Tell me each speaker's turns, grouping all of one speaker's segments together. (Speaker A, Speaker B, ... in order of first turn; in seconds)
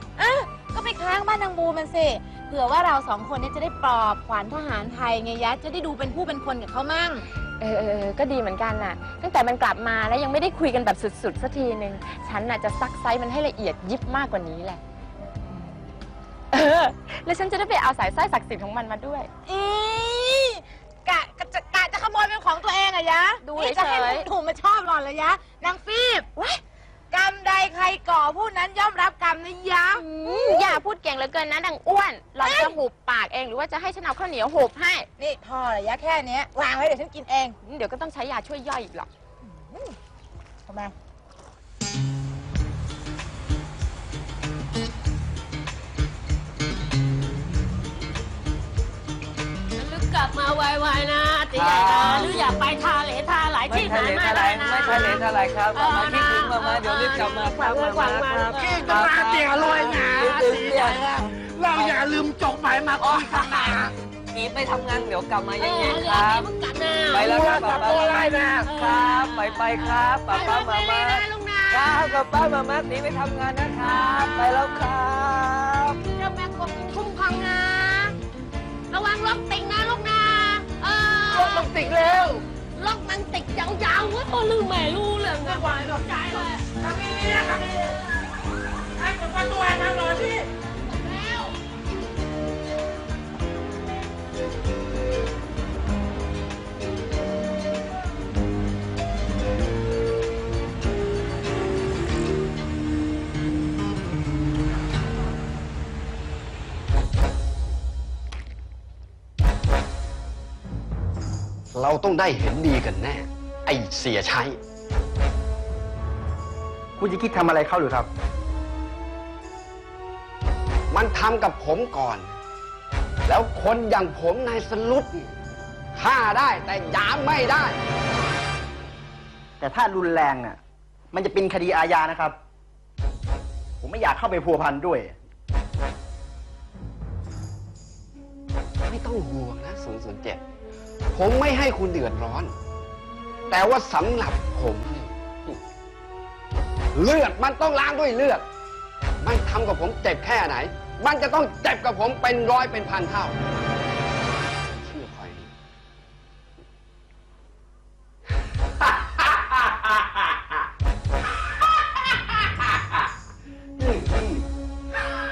Speaker A: 0.2-7.2, 19.5-20.6, 21.1-26.3, 27.1-30.0, 35.2-37.5, 58.7-63.9, 67.4-68.7, 81.3-81.6
Speaker B: 7.6-14.8, 16.5-19.3, 23.4-24.3, 29.9-35.1, 37.6-39.1
Speaker C: 49.8-58.9, 59.7-60.0, 63.6-63.8, 65.6-72.1, 73.7-74.8, 76.1-78.2, 78.9-86.7, 91.0-91.5
Speaker D: 51.5-52.4, 53.6-61.1, 61.7-62.1, 64.3-66.5, 67.1-68.1, 68.8-76.0
Speaker E: 111.7-114.6, 120.9-122.4, 123.2-125.3, 126.0-127.8, 138.8-140.4, 141.1-142.5, 143.5-145.5, 146.9-148.4, 149.2-153.4, 154.8-155.5, 158.8-160.3, 162.1-162.8, 163.8-164.4
Speaker F: 117.0-118.1, 129.6-130.6, 131.1-132.4, 133.8-135.1